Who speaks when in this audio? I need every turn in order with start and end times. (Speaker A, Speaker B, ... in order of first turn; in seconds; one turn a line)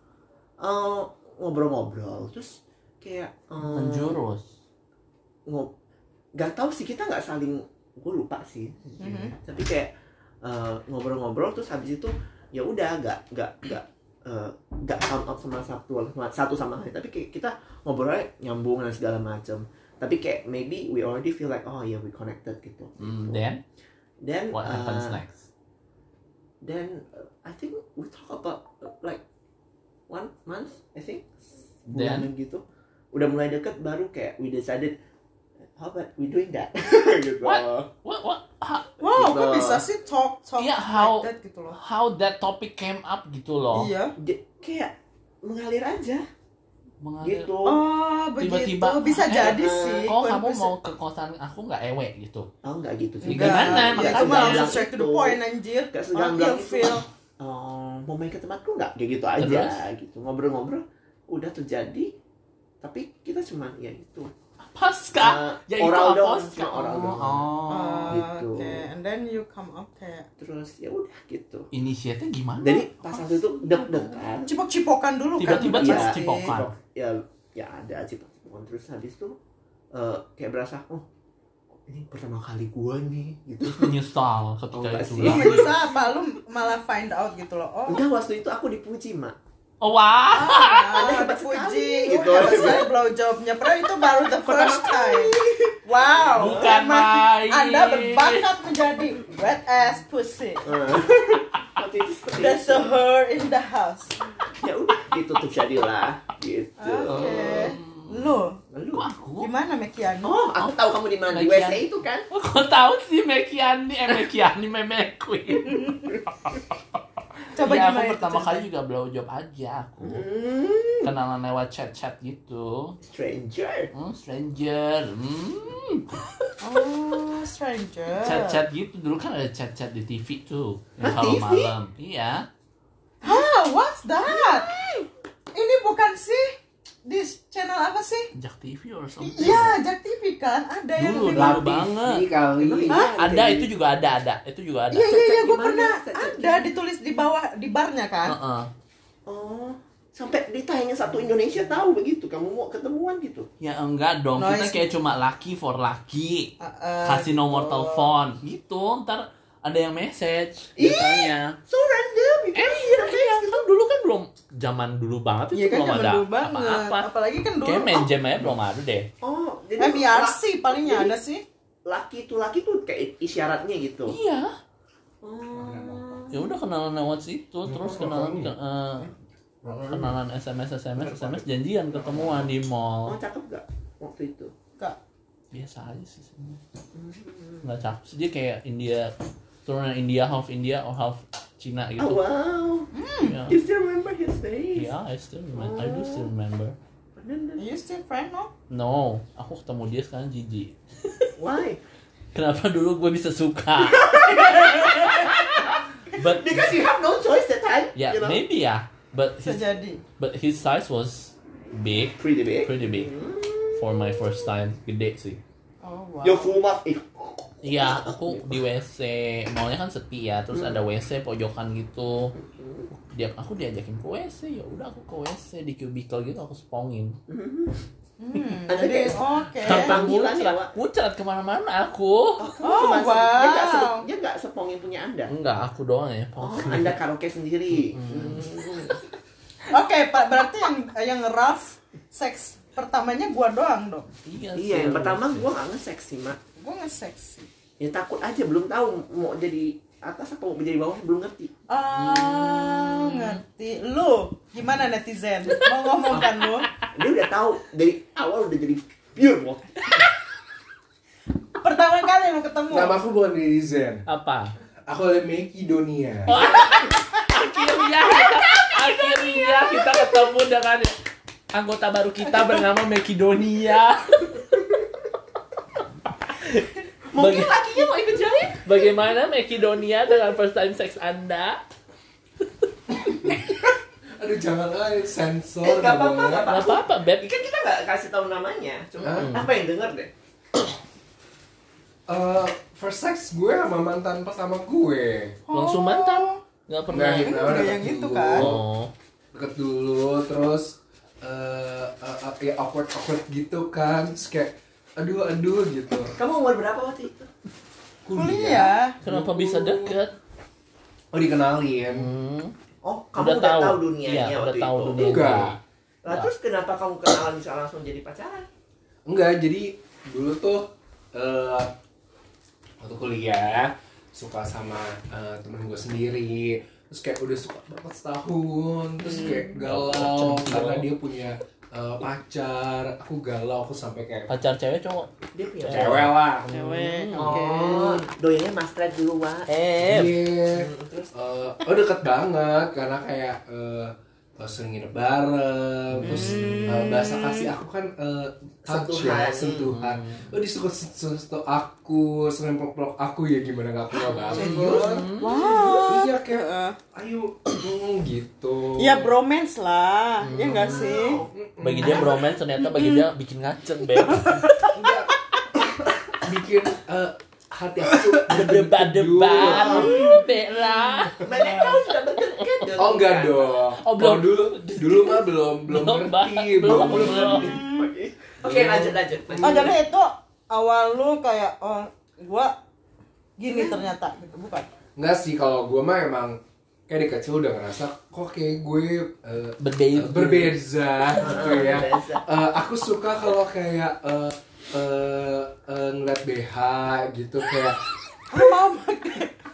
Speaker A: 0.6-4.2
Speaker B: 3.6-4.5
Speaker A: 5.5-5.7
Speaker A: 6.3-9.9
Speaker C: 9.0-9.3
Speaker A: 10.4-23.4
Speaker B: 23.0-23.6
Speaker A: 24.2-25.2
Speaker B: 24.5-25.4
Speaker A: 26.6-29.2
Speaker A: 30.1-35.0
Speaker B: 31.9-32.3
Speaker A: 35.8-37.9
Speaker B: 37.4-38.9
Speaker C: 39.0-41.8
Speaker A: 39.0-39.8
Speaker B: 40.6-43.9
Speaker C: 43.7-44.1
Speaker A: 44.2-46.2
Speaker B: 47.0-47.5
Speaker A: 47.2-47.8
Speaker C: 47.6-50.7
Speaker B: 48.4-52.5
Speaker A: 49.3-50.1
Speaker A: 52.6-55.4
Speaker C: 53.2-57.0
Speaker B: 53.2-54.8
Speaker A: 55.9-62.1
Speaker B: 59.4-59.8
Speaker A: 62.8-64.3
Speaker B: 64.6-68.2
Speaker A: 65.2-67.5
Speaker C: 67.7-70.3
Speaker A: 68.1-68.9
Speaker A: 70.4-71.7
Speaker B: 71.7-74.0
Speaker A: 72.6-74.5
Speaker C: 74.5-76.6
Speaker B: 75.4-76.7
Speaker A: 75.5-79.4
Speaker A: 79.9-81.0
Speaker A: 81.9-84.0
Speaker B: 83.6-85.7
Speaker A: 84.7-85.8
Speaker C: 85.2-88.0
Speaker A: 87.9-89.3
Speaker B: 89.8-91.0
Speaker C: 90.3-100.9
Speaker A: 90.9-92.9
Speaker A: 94.3-96.7
Speaker B: 96.3-98.5
Speaker A: 100.6-103.0
Speaker C: 102.4-104.2
Speaker A: 104.5-107.7
Speaker C: 106.8-108.6
Speaker B: 107.0-108.3
Speaker A: 108.7-109.1
Speaker B: 108.9-109.5
Speaker C: 109.4-110.5
Speaker A: 110.2-112.3
Speaker B: 111.3-116.6
Speaker C: 115.7-116.1
Speaker C: 117.5-118.6
Speaker B: 117.5-120.2
Speaker A: 120.0-121.1
Speaker B: 121.0-123.0
Speaker A: 123.0-123.9
Speaker B: 123.9-126.5
Speaker C: 126.6-128.6
Speaker B: 128.2-132.5
Speaker A: 131.0-131.7
Speaker C: 133.2-134.7
Speaker A: 134.2-135.1
Speaker C: 135.5-138.3
Speaker B: 138.3-139.8
Speaker C: 139.2-141.6
Speaker B: 141.0-142.2
Speaker D: 141.3-143.1
Speaker A: 142.6-143.7
Speaker B: 143.1-145.1
Speaker C: 144.9-148.3
Speaker A: 145.0-146.7
Speaker B: 148.2-148.7
Speaker A: 149.2-153.5
Speaker B: 153.6-156.5
Speaker C: 154.4-154.8
Speaker C: 156.6-158.1
Speaker B: 157.0-161.6
Speaker A: 160.8-163.6
Speaker B: 162.5-167.1
Speaker C: 165.5-168.1
Speaker B: 167.6-169.1
Speaker A: 169.2-171.2
Speaker C: 169.8-171.4
Speaker A: 171.8-174.2
Speaker B: 174.1-174.6
Speaker A: 175.2-176.4
Speaker D: 175.6-176.2
Speaker B: 176.3-179.1
Speaker D: 177.6-178.5
Speaker D: 179.6-180.1
Speaker B: 179.8-183.2
Speaker A: 181.0-181.5
Speaker D: 182.0-182.4
Speaker A: 183.0-184.5
Speaker B: 185.5-186.6
Speaker A: 186.9-187.6
Speaker B: 187.6-189.1
Speaker B: 189.6-192.2
Speaker A: 192.0-192.9
Speaker C: 192.9-193.4
Speaker B: 193.2-193.6
Speaker A: 193.4-194.9
Speaker B: 194.8-196.8
Speaker A: 195.5-196.3
Speaker A: 197.2-197.6
Speaker C: 197.6-198.5
Speaker B: 198.7-201.3
Speaker A: 201.4-201.8
Speaker B: 202.3-206.8
Speaker A: 203.8-208.4
Speaker B: 207.9-209.6
Speaker C: 209.4-210.0
Speaker B: 210.2-213.1
Speaker A: 212.2-214.3
Speaker B: 213.7-215.4
Speaker C: 215.8-216.6
Speaker A: 216.2-218.6
Speaker B: 217.6-222.3
Speaker A: 220.5-220.8
Speaker A: 222.4-222.9
Speaker B: 222.9-227.2
Speaker A: 227.3-227.8
Speaker C: 228.2-230.0
Speaker A: 228.7-230.7
Speaker B: 229.6-232.5
Speaker A: 232.4-235.3
Speaker C: 232.6-234.1
Speaker B: 235.3-237.0
Speaker A: 236.4-239.0
Speaker B: 237.7-238.6
Speaker C: 239.7-244.1
Speaker B: 244.2-245.5
Speaker A: 244.5-246.4
Speaker C: 246.6-247.5
Speaker A: 247.8-251.5
Speaker C: 251.7-256.7
Speaker B: 251.9-253.4
Speaker B: 255.6-256.8
Speaker A: 256.9-259.7
Speaker C: 261.6-263.0
Speaker D: 262.7-264.0
Speaker B: 264.1-264.5
Speaker D: 264.9-266.4
Speaker B: 266.3-270.9
Speaker B: 271.5-274.5
Speaker B: 276.2-277.6
Speaker A: 277.1-278.9
Speaker B: 278.6-281.6
Speaker D: 283.0-286.5
Speaker A: 285.6-290.1
Speaker B: 286.4-287.3
Speaker D: 289.0-289.4
Speaker B: 289.1-289.5
Speaker D: 292.1-295.4
Speaker C: 295.5-296.4
Speaker B: 295.5-297.4
Speaker D: 296.9-298.6
Speaker C: 297.2-298.5
Speaker B: 298.3-298.9
Speaker D: 299.3-306.2
Speaker A: 306.1-307.3
Speaker D: 308.0-310.0
Speaker C: 308.1-309.0
Speaker B: 309.0-310.1
Speaker D: 311.1-312.1
Speaker B: 311.9-312.5
Speaker A: 312.8-315.3
Speaker B: 313.1-316.3
Speaker D: 314.9-315.6
Speaker A: 316.0-318.5
Speaker D: 319.1-321.7
Speaker D: 322.8-334.3
Speaker B: 329.2-330.9
Speaker B: 334.3-335.1
Speaker A: 335.3-336.1
Speaker D: 335.6-336.5
Speaker B: 335.7-337.4
Speaker C: 336.5-338.0
Speaker A: 337.1-339.5
Speaker B: 339.5-340.2
Speaker D: 339.8-359.1
Speaker A: 340.5-341.1
Speaker B: 346.0-346.3
Speaker C: 346.0-347.5
Speaker A: 348.6-349.8
Speaker B: 349.7-350.3
Speaker B: 354.1-355.6
Speaker A: 354.3-355.0
Speaker C: 354.6-356.8
Speaker C: 358.8-361.2
Speaker B: 360.2-360.9
Speaker A: 360.5-361.3
Speaker D: 361.3-362.2
Speaker B: 361.6-364.7
Speaker C: 362.6-363.0
Speaker C: 364.0-364.6
Speaker D: 364.7-370.1
Speaker B: 368.2-371.2
Speaker A: 369.3-370.0
Speaker C: 369.6-371.8
Speaker A: 371.2-373.6
Speaker B: 372.4-372.7
Speaker D: 372.8-377.6
Speaker B: 373.8-377.6
Speaker A: 376.6-379.8
Speaker C: 377.4-377.9
Speaker D: 378.4-379.7
Speaker C: 379.4-382.5
Speaker C: 383.4-384.7
Speaker D: 384.9-397.8
Speaker B: 389.6-390.6
Speaker A: 391.1-392.2
Speaker C: 398.3-399.3